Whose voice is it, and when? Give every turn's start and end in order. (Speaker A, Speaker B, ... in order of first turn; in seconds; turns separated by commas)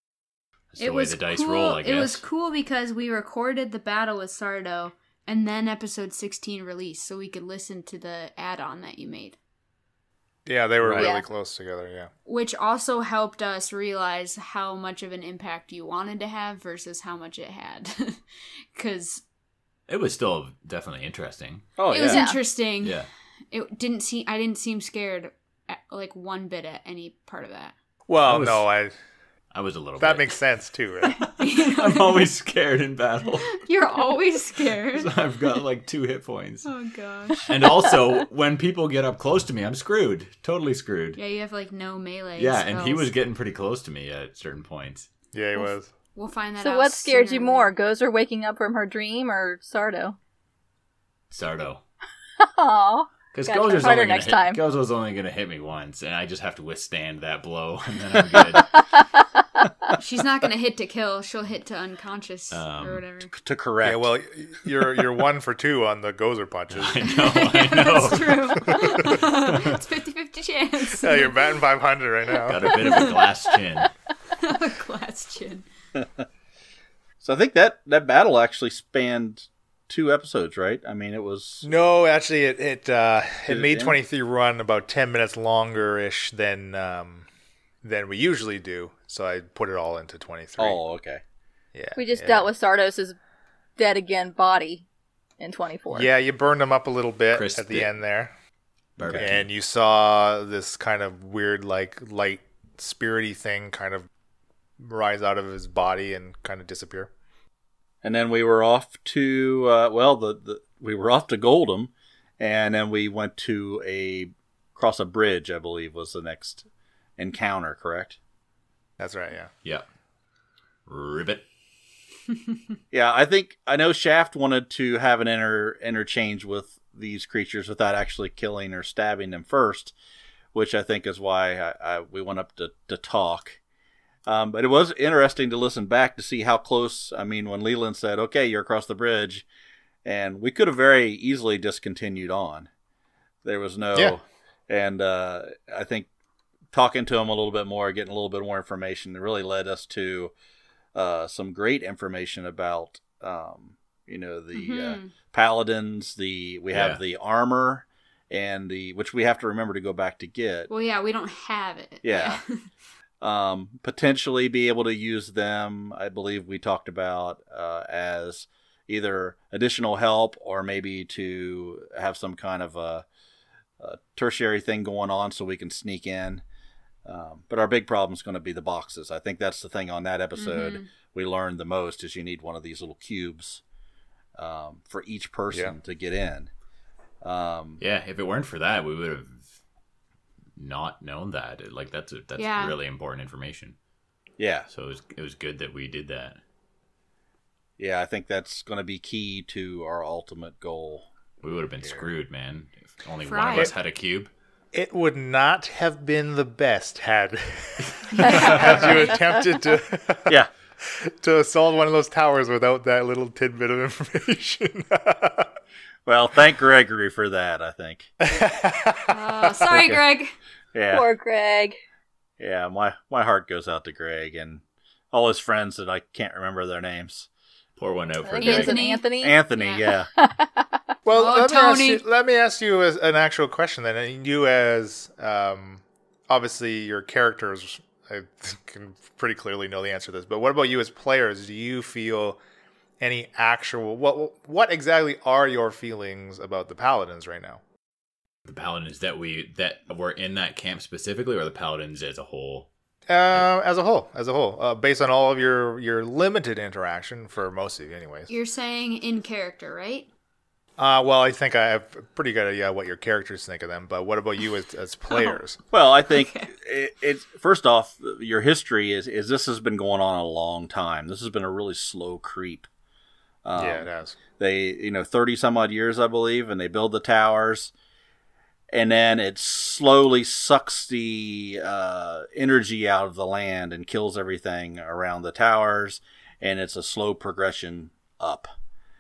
Speaker A: 0.7-2.2, Speaker B: 0.8-9.4, Speaker C: 10.5-12.1, Speaker D: 10.8-11.1, Speaker E: 11.0-11.2, Speaker B: 12.3-18.2, Speaker B: 18.8-19.2, Speaker A: 19.9-21.7, Speaker D: 21.8-22.2, Speaker B: 21.9-23.0, Speaker E: 22.1-22.4, Speaker A: 22.8-23.1, Speaker B: 23.5-27.7, Speaker C: 28.1-28.9, Speaker A: 28.2-28.7, Speaker A: 29.5-30.4, Speaker C: 30.0-31.2, Speaker A: 31.1-33.6, Speaker B: 31.4-32.3, Speaker B: 33.4-35.2, Speaker A: 34.9-36.7, Speaker B: 36.6-37.5, Speaker A: 37.4-41.2, Speaker B: 41.2-43.1, Speaker A: 42.4-45.1, Speaker C: 45.3-45.9, Speaker B: 46.1-47.7, Speaker E: 46.6-50.2, Speaker A: 51.3-51.8, Speaker E: 52.4-54.6, Speaker A: 53.3-58.8, Speaker E: 58.5-59.7, Speaker B: 60.0-63.3, Speaker A: 62.5-63.1, Speaker D: 63.4-64.1, Speaker C: 63.8-67.0, Speaker A: 66.7-69.8, Speaker B: 67.0-71.6, Speaker C: 68.6-69.2, Speaker C: 70.9-72.8, Speaker A: 72.5-73.9, Speaker B: 72.7-73.5, Speaker B: 74.4-75.7, Speaker D: 76.0-76.3, Speaker D: 77.2-81.7, Speaker C: 81.6-87.3, Speaker D: 83.5-84.0, Speaker C: 87.8-90.8, Speaker D: 90.6-91.2, Speaker C: 91.7-92.5, Speaker E: 92.0-93.2, Speaker E: 93.8-94.9, Speaker E: 95.4-96.1, Speaker C: 95.9-98.3, Speaker A: 97.3-98.0, Speaker A: 99.0-99.5, Speaker D: 99.0-99.3, Speaker C: 99.1-104.1, Speaker C: 104.8-107.1, Speaker D: 108.0-116.7, Speaker D: 117.2-118.2, Speaker C: 119.0-119.5, Speaker A: 120.9-121.4, Speaker D: 122.9-129.9, Speaker D: 130.5-133.6, Speaker D: 134.3-139.5, Speaker D: 140.1-142.7, Speaker D: 143.4-146.1, Speaker D: 146.7-150.3, Speaker D: 150.9-160.7, Speaker B: 154.5-155.2, Speaker A: 156.7-157.0, Speaker B: 160.7-162.6, Speaker D: 162.0-162.4, Speaker D: 163.2-173.1, Speaker D: 173.8-176.4, Speaker D: 177.1-183.6, Speaker B: 180.4-180.9, Speaker D: 184.4-186.5, Speaker D: 187.2-187.8, Speaker A: 187.8-189.6, Speaker A: 190.6-193.8, Speaker B: 192.4-192.8, Speaker D: 194.4-194.7, Speaker A: 194.7-196.4, Speaker D: 197.8-201.1, Speaker A: 201.4-204.3, Speaker B: 203.2-203.7, Speaker C: 204.7-215.5, Speaker B: 208.1-209.4, Speaker D: 216.1-218.1, Speaker C: 218.2-219.8, Speaker B: 219.1-220.3, Speaker D: 220.7-221.1, Speaker E: 220.9-221.8, Speaker D: 222.4-227.3, Speaker A: 227.8-228.8, Speaker E: 228.2-229.4, Speaker B: 228.4-229.9, Speaker D: 229.2-230.1, Speaker E: 230.2-230.8, Speaker C: 231.1-242.4, Speaker B: 231.1-232.0, Speaker C: 243.0-247.6, Speaker A: 248.5-252.7, Speaker C: 253.1-258.3, Speaker B: 258.3-260.1, Speaker C: 260.8-265.6, Speaker D: 265.7-272.7, Speaker B: 266.1-266.5, Speaker D: 273.4-277.7, Speaker C: 273.6-274.2, Speaker D: 278.7-288.5